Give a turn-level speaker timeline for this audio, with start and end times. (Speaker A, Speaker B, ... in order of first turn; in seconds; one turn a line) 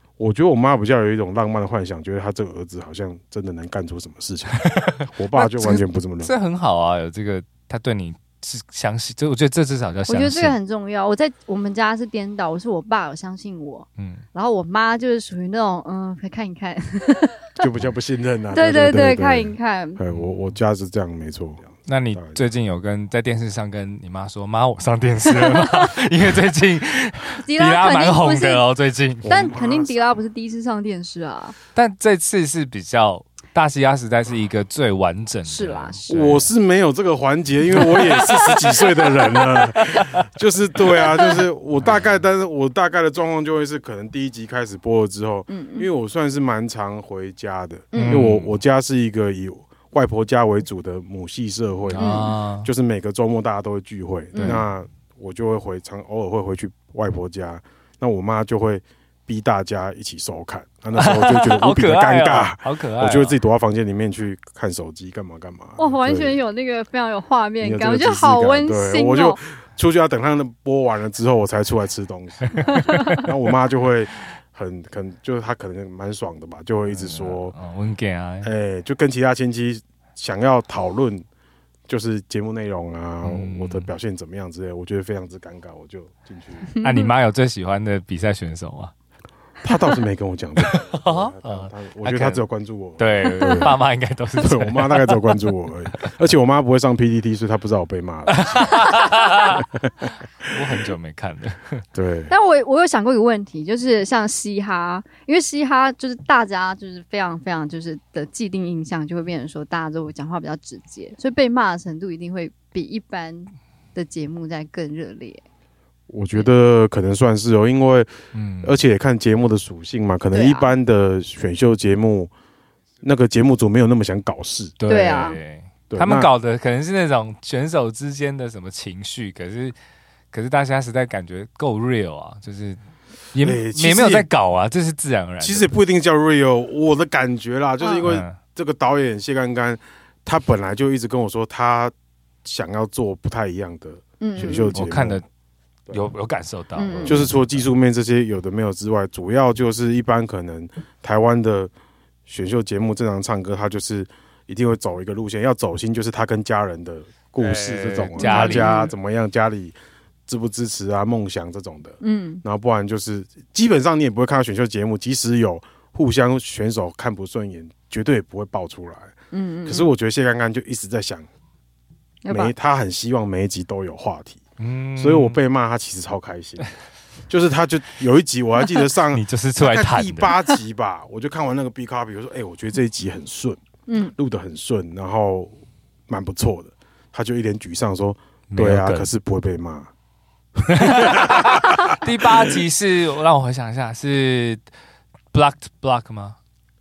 Speaker A: 0.2-6.3
Speaker B: 4.6-10.6
Speaker C: 10.1-17.6
Speaker B: 14.0-14.2
Speaker A: 17.6-22.4
Speaker C: 18.5-20.0
Speaker B: 20.1-20.4
Speaker B: 21.9-29.4
Speaker C: 25.3-26.0
Speaker C: 27.4-28.6
Speaker A: 29.2-29.9
Speaker C: 29.3-31.6
Speaker B: 31.8-36.5
Speaker C: 35.5-36.4
Speaker A: 36.1-66.4
Speaker C: 45.5-45.9
Speaker C: 47.9-48.2
Speaker B: 48.0-48.5
Speaker B: 51.9-52.7
Speaker C: 52.0-52.3
Speaker C: 54.3-54.6
Speaker B: 61.0-63.4
Speaker C: 65.8-69.4
Speaker A: 67.6-77.5
Speaker B: 72.5-73.3
Speaker B: 76.9-78.5
Speaker A: 78.4-81.2
Speaker A: 81.9-86.7
Speaker B: 83.2-83.9
Speaker C: 86.7-87.1
Speaker B: 86.8-88.9
Speaker A: 89.6-93.8
Speaker B: 90.6-92.4
Speaker B: 93.0-95.4
Speaker A: 94.4-98.9
Speaker B: 98.3-99.7
Speaker A: 99.5-100.1
Speaker B: 100.4-101.8
Speaker A: 101.9-102.3
Speaker C: 102.3-115.4
Speaker A: 116.1-118.1
Speaker B: 118.3-118.8
Speaker A: 118.6-122.3
Speaker C: 120.3-120.7
Speaker A: 123.0-124.8
Speaker B: 124.8-129.8
Speaker C: 124.9-125.4
Speaker A: 125.9-126.3
Speaker B: 130.3-132.8
Speaker B: 133.3-135.7
Speaker A: 133.4-134.3
Speaker A: 135.4-141.9
Speaker B: 138.0-138.4
Speaker A: 142.4-145.2
Speaker C: 144.2-144.7
Speaker B: 144.4-145.2
Speaker B: 145.9-147.7
Speaker C: 146.8-147.2
Speaker A: 147.1-151.7
Speaker A: 152.3-159.8
Speaker B: 157.4-158.8
Speaker C: 158.2-158.9
Speaker A: 160.3-169.1
Speaker C: 162.0-162.4
Speaker C: 169.3-169.9
Speaker A: 169.7-171.3
Speaker C: 172.2-172.5
Speaker A: 172.3-174.4
Speaker B: 174.6-175.4
Speaker A: 175.0-176.7
Speaker A: 177.3-183.6
Speaker B: 179.1-180.4
Speaker C: 183.9-184.1
Speaker A: 184.2-185.5
Speaker A: 186.1-189.9
Speaker B: 188.5-189.1
Speaker B: 190.7-194.6
Speaker A: 190.7-192.0
Speaker B: 195.3-196.4